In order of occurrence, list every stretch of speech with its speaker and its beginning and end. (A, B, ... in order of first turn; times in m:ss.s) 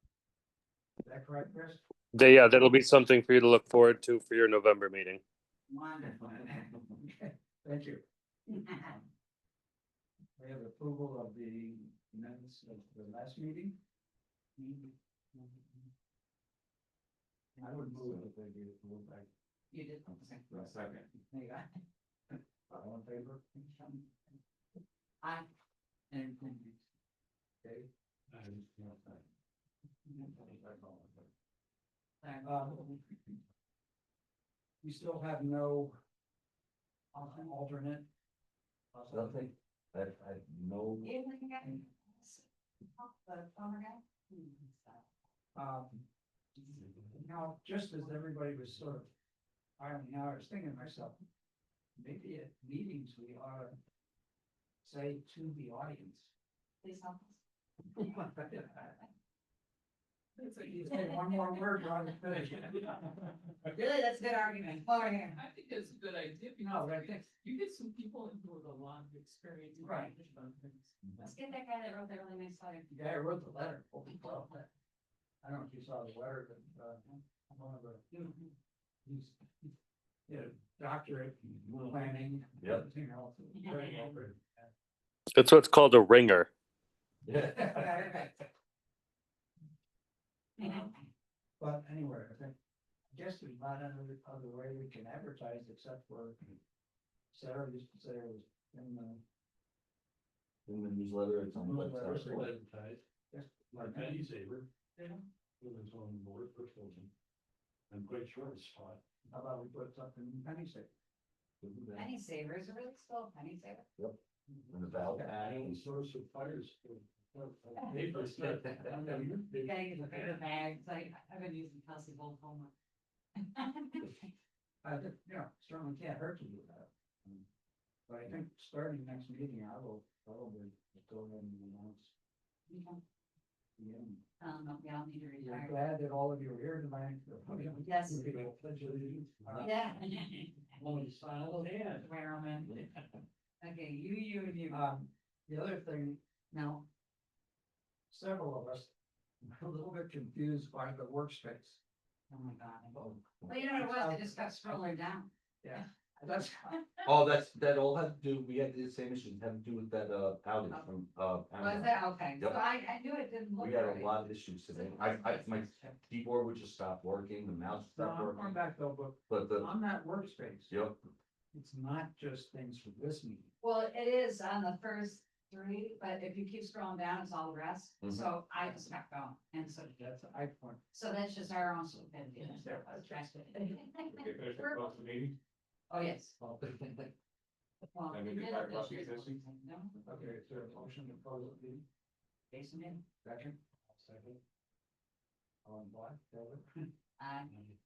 0:01.0-0:01.8 A
0:02.1-0:05.2 B
0:05.7-0:06.7 C
0:06.1-0:08.0 A
0:08.5-0:08.9 C
0:08.5-0:09.0 A
0:10.4-0:13.8 A
0:14.6-0:15.9 C
0:17.6-0:18.2 C
0:17.6-0:19.3 A
0:19.7-0:21.7 C
0:20.5-0:21.0 D
0:22.7-0:23.4 A
0:23.6-0:24.1 C
0:25.2-0:25.5 C
0:26.1-0:26.8 C
0:27.6-0:27.9 A
0:28.3-0:29.0 E
0:30.1-0:30.3 C
0:30.2-0:31.2 A
0:32.2-0:33.0 C
0:32.4-0:33.0 A
0:34.8-0:36.0 A
0:37.1-0:37.5 C
0:37.1-0:38.1 A
0:38.9-0:39.5 A
0:39.1-0:41.1 D
0:41.0-0:45.1 C
0:45.5-0:46.0 A
0:47.2-0:49.1 A
0:49.8-0:51.2 A
0:52.0-0:53.7 A
0:54.8-0:56.3 A
0:56.8-0:57.4 C
0:57.9-0:59.0 A
1:00.4-1:03.6 A
1:00.9-1:01.3 C
1:03.7-1:05.4 C
1:05.3-1:10.9 F
1:06.6-1:07.3 A
1:09.8-1:10.1 C
1:11.2-1:12.9 C
1:12.9-1:14.7 A
1:15.4-1:18.2 A
1:18.1-1:18.5 C
1:19.0-1:19.7 A
1:20.3-1:24.7 A
1:22.6-1:22.8 D
1:23.6-1:24.0 C
1:23.7-1:24.2 E
1:25.3-1:26.5 B
1:27.2-1:28.0 D
1:27.6-1:28.4 C
1:30.6-1:30.9 C
1:30.6-1:30.9 A
1:31.6-1:32.6 A
1:33.1-1:36.5 A
1:37.3-1:39.2 A
1:40.6-1:42.5 D
1:41.6-1:43.0 E
1:43.3-1:44.3 A
1:43.7-1:44.7 E
1:45.6-1:47.1 E
1:47.9-1:49.0 E
1:49.3-1:50.9 A
1:51.6-1:52.1 D
1:51.9-1:53.8 C
1:54.7-1:55.8 D
1:55.2-2:00.3 E
1:58.8-1:59.3 A
1:59.6-2:02.7 C
2:03.4-2:04.2 C
2:04.8-2:07.4 A
2:08.1-2:12.1 A
2:12.7-2:13.0 C
2:13.8-2:14.2 A
2:14.4-2:15.8 C
2:15.4-2:19.9 A
2:17.8-2:18.4 C
2:18.4-2:19.6 E
2:19.5-2:20.8 C
2:20.8-2:22.1 A
2:21.6-2:22.8 C
2:23.6-2:24.9 C
2:24.7-2:26.2 A
2:26.5-2:26.8 C
2:28.1-2:31.8 A
2:32.3-2:35.8 C
2:32.9-2:34.8 A
2:35.6-2:36.8 A
2:37.0-2:42.6 D
2:41.6-2:46.0 C
2:43.6-2:48.6 D
2:47.9-2:50.8 A
2:49.3-2:49.7 D
2:50.7-2:51.0 D
2:51.5-2:53.5 A
2:53.6-3:00.0 C
2:58.0-2:58.3 D
3:00.0-3:00.8 A
3:00.9-3:05.0 C
3:02.3-3:03.3 A
3:04.3-3:05.3 E
3:05.9-3:06.4 C
3:07.9-3:10.0 C
3:08.1-3:09.2 D
3:10.0-3:11.8 A
3:12.5-3:13.0 C
3:13.2-3:13.6 A
3:14.0-3:14.4 E
3:15.6-3:16.8 A
3:17.2-3:17.6 C